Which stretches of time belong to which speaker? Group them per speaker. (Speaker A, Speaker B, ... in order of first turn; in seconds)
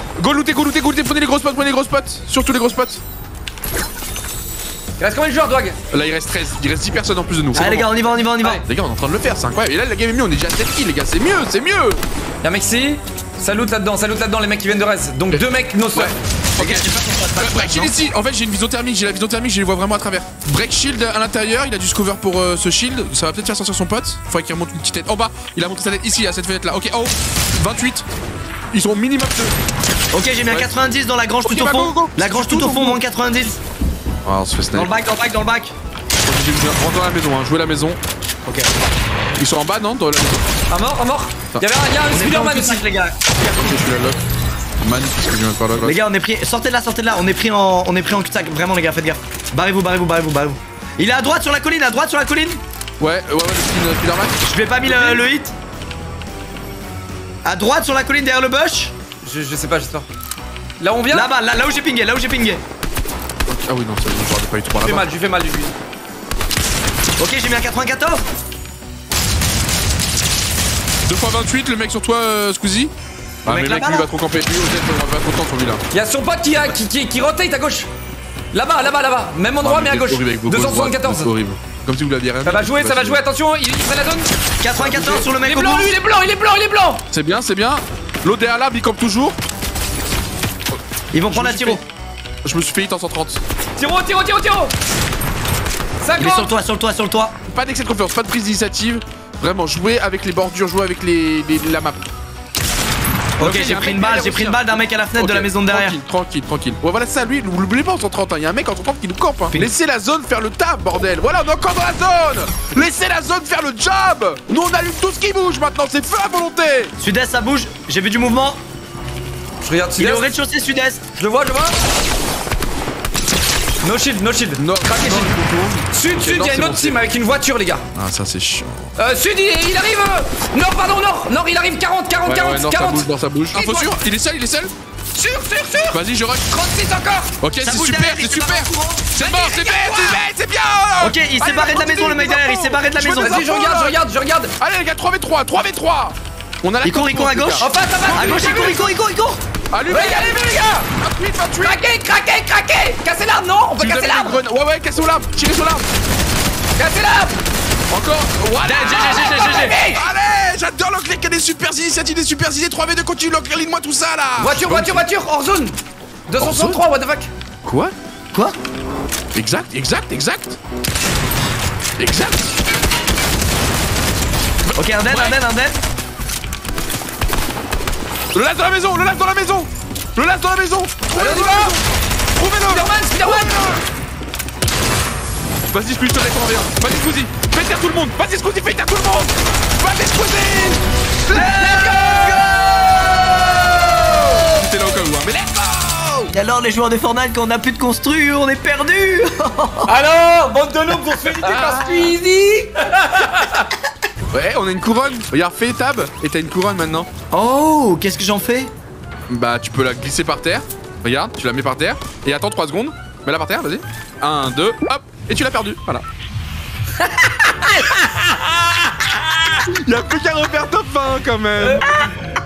Speaker A: 0.2-3.0, 5.9-8.1, 8.6-12.0, 15.3-28.1, 28.7-29.5, 30.5-30.7, 31.4-33.0, 34.2-34.9, 36.2-38.0, 39.4-40.5, 43.5-44.2, 44.8-46.0, 53.0-55.2, 63.5-65.0, 71.0-72.9, 73.4-75.8, 79.6-83.2, 87.1-89.4, 91.3-91.8, 92.4-93.4, 97.5-102.0, 103.4-116.9, 124.6-127.0, 127.9-128.9, 132.2-134.7, 135.9-136.5, 137.4-144.0, 144.6-148.9, 149.7-151.8, 153.8-155.8, 157.9-165.0, 166.4-166.8, 167.6-167.9, 169.3-170.6, 172.0-172.5, 174.7-175.4, 178.3-181.8, 182.3-183.8, 185.7-196.3, 201.3-202.1, 204.3-207.1, 209.3-216.0, 219.6-221.8
Speaker B: 5.0-5.8, 12.4-16.1, 40.7-42.9, 59.2-60.1, 60.8-61.3, 64.8-65.7, 75.9-77.9, 78.5-81.3, 82.4-87.0, 93.8-94.7, 96.0-96.5, 119.6-120.3, 121.1-121.8, 123.8-125.3, 125.9-127.8, 129.0-133.9, 135.1-137.3, 139.1-140.2, 143.2-144.5, 147.6-148.9, 149.9-150.8, 151.6-154.4, 156.8-157.4, 158.8-160.1, 164.4-165.8, 166.3-167.3, 181.1-181.8, 182.6-183.8, 191.3-192.4, 199.9-203.7, 217.0-218.6, 221.6-222.1
Speaker C: 7.5-8.6, 16.6-18.0, 30.1-33.6, 34.7-35.7, 38.4-38.7, 42.1-43.8, 45.8-52.6, 54.4-55.5, 57.4-58.9, 61.1-62.6, 67.2-68.2, 73.5-74.1, 84.6-85.9, 91.1-91.8, 96.2-97.3, 103.4-106.0, 117.0-118.6, 120.0-121.0, 137.6-139.1, 141.0-143.4, 146.8-149.4, 158.6-159.7, 174.7-175.8, 191.3-192.6, 196.3-199.9, 207.3-208.7